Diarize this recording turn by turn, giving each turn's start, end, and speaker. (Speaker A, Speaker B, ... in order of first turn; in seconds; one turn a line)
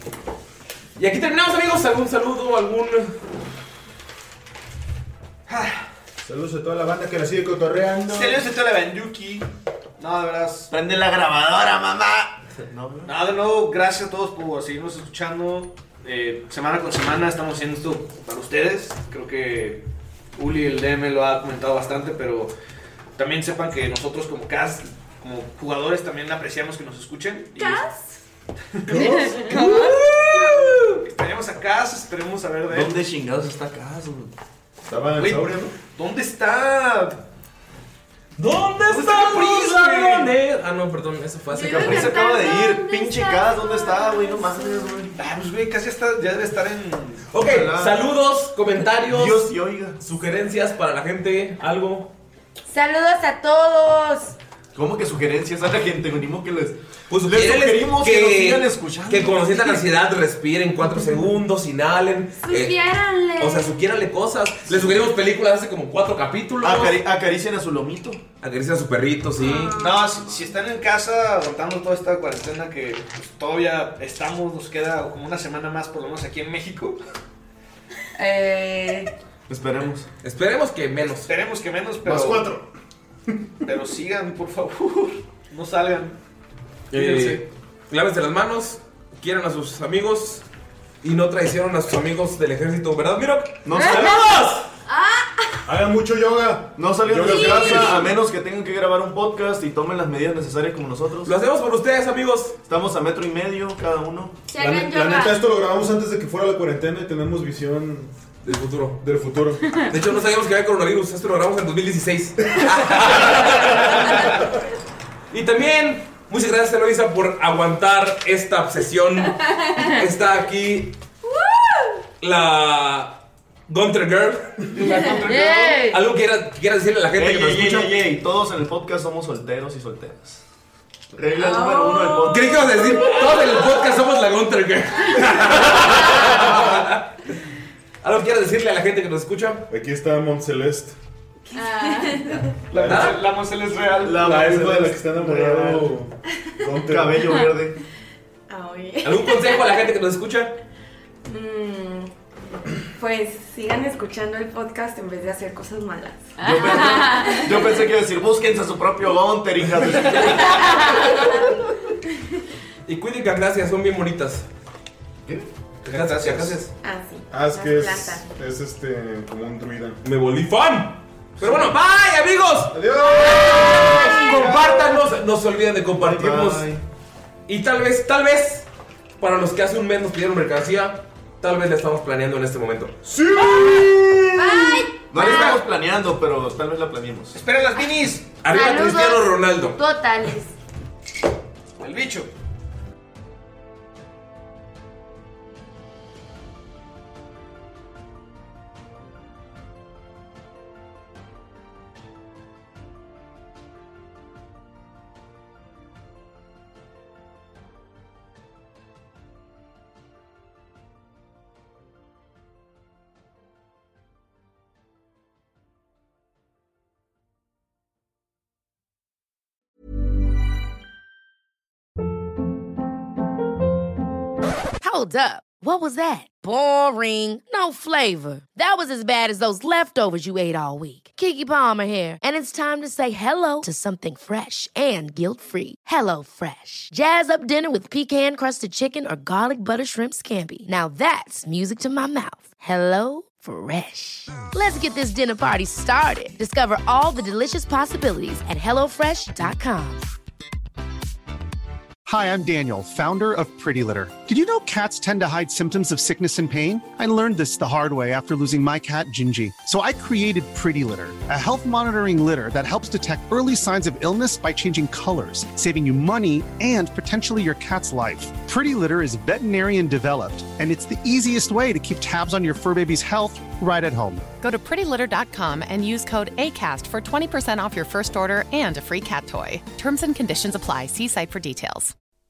Speaker A: 1.0-3.1
Speaker B: 5.5-5.9
Speaker C: 6.2-8.3
Speaker B: 8.0-10.7
Speaker D: 10.7-13.2
Speaker B: 13.0-19.8
Speaker B: 20.4-22.5
Speaker B: 23.1-27.8
Speaker E: 27.6-28.2
Speaker B: 28.7-29.5
Speaker E: 29.2-30.0
Speaker A: 29.4-31.0
Speaker B: 31.0-33.0
Speaker D: 32.7-34.3
Speaker C: 34.8-35.8
Speaker B: 35.1-37.2
Speaker A: 38.4-42.2
Speaker B: 38.9-40.3
Speaker E: 41.5-45.1
Speaker D: 41.6-45.1
Speaker B: 45.1-47.3
Speaker A: 47.3-52.1
Speaker D: 47.3-48.0
Speaker D: 49.0-50.0
Speaker F: 52.7-54.4
Speaker D: 54.7-59.8
Speaker A: 57.1-62.8
Speaker E: 62.4-63.7
Speaker A: 63.4-67.0
Speaker D: 66.6-68.2
Speaker A: 68.4-69.8
Speaker E: 69.4-70.0
Speaker B: 69.6-77.0
Speaker D: 70.1-70.5
Speaker F: 78.1-79.1
Speaker D: 79.5-80.1
Speaker A: 80.2-81.3
Speaker B: 81.2-82.5
Speaker C: 82.0-82.6
Speaker B: 83.6-86.2
Speaker A: 86.9-90.5
Speaker B: 86.9-87.4
Speaker A: 91.0-94.7
Speaker D: 93.6-94.2
Speaker E: 93.8-94.1
Speaker E: 94.8-95.6
Speaker C: 95.7-98.0
Speaker D: 96.7-101.3
Speaker E: 97.2-98.1
Speaker A: 101.2-102.6
Speaker D: 102.7-104.4
Speaker E: 104.5-105.4
Speaker C: 104.5-108.1
Speaker A: 108.4-109.0
Speaker C: 109.0-109.7
Speaker A: 109.7-114.3
Speaker A: 115.3-121.0
Speaker E: 121.3-122.0
Speaker A: 122.2-128.0
Speaker D: 124.8-125.8
Speaker F: 125.1-126.0
Speaker D: 127.2-130.4
Speaker D: 131.1-133.1
Speaker E: 131.4-133.2
Speaker A: 132.2-137.2
Speaker A: 138.0-139.6
Speaker C: 139.7-140.9
Speaker G: 141.5-142.5
Speaker E: 141.5-142.3
Speaker B: 142.7-144.6
Speaker C: 142.7-143.2
Speaker A: 142.9-143.1
Speaker D: 144.0-146.0
Speaker C: 144.1-147.2
Speaker D: 146.7-147.8
Speaker G: 148.5-149.9
Speaker A: 149.0-150.5
Speaker G: 151.2-152.1
Speaker G: 152.8-157.5
Speaker D: 156.4-161.6
Speaker E: 156.5-157.2
Speaker A: 162.8-164.5
Speaker A: 165.8-166.7
Speaker B: 165.8-166.6
Speaker G: 166.8-168.3
Speaker C: 167.3-170.0
Speaker A: 170.0-176.7
Speaker C: 172.7-174.1
Speaker D: 176.0-176.8
Speaker A: 177.5-178.7
Speaker A: 179.2-183.0
Speaker D: 183.5-183.8
Speaker E: 184.3-185.6
Speaker D: 185.1-187.4
Speaker B: 185.2-185.6
Speaker B: 187.3-188.3
Speaker A: 188.4-189.8
Speaker F: 188.5-190.5
Speaker B: 191.8-192.3
Speaker H: 224.8-250.0
Speaker I: 252.0-274.2
Speaker J: 274.4-281.9